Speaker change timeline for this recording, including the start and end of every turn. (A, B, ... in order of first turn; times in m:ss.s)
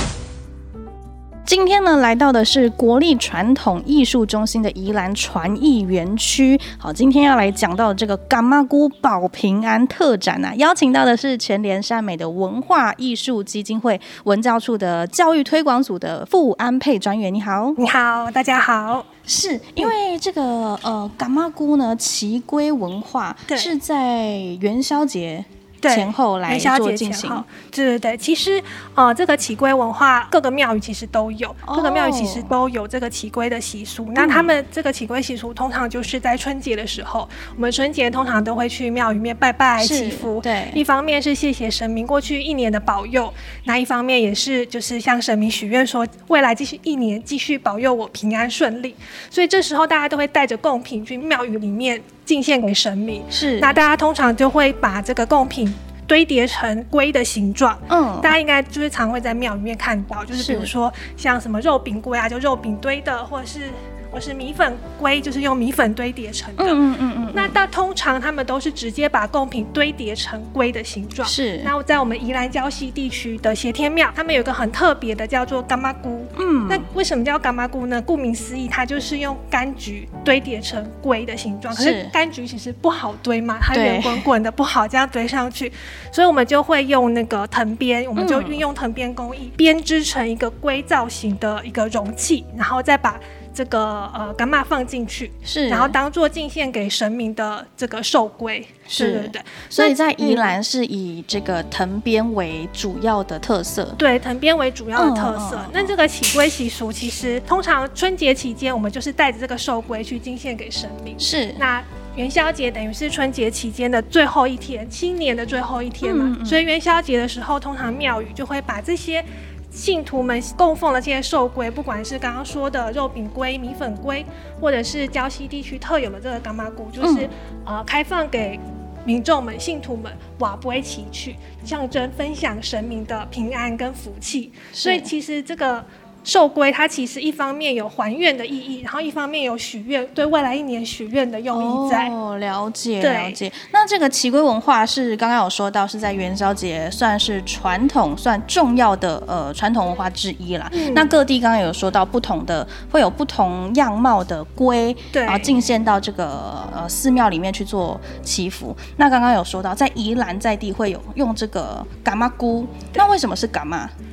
0:01.5-0:17.8 A
0:17.8-0:19.1 B
0:19.3-0:27.4 A
0:25.8-1:06.8 B
0:31.7-0:32.5 A
0:34.2-0:34.6 A
0:39.8-0:40.8 A
0:53.3-0:53.8 A
0:57.9-0:58.4 A
1:00.3-1:00.7 A
1:06.6-1:07.6 A
1:07.3-1:40.5 B
1:11.2-1:11.7 A
1:16.4-1:16.9 A
1:21.7-1:22.1 A
1:23.7-1:24.3 A
1:28.2-1:28.6 A
1:35.4-1:36.0 A
1:38.9-1:44.0 A
1:44.0-2:22.1 B
1:45.0-1:45.9 A
1:51.2-1:51.6 A
1:56.0-1:56.6 A
2:07.0-2:07.3 A
2:14.7-2:15.1 A
2:21.5-2:43.9 A
2:23.0-2:23.4 B
2:30.7-2:31.1 B
2:35.1-2:35.5 B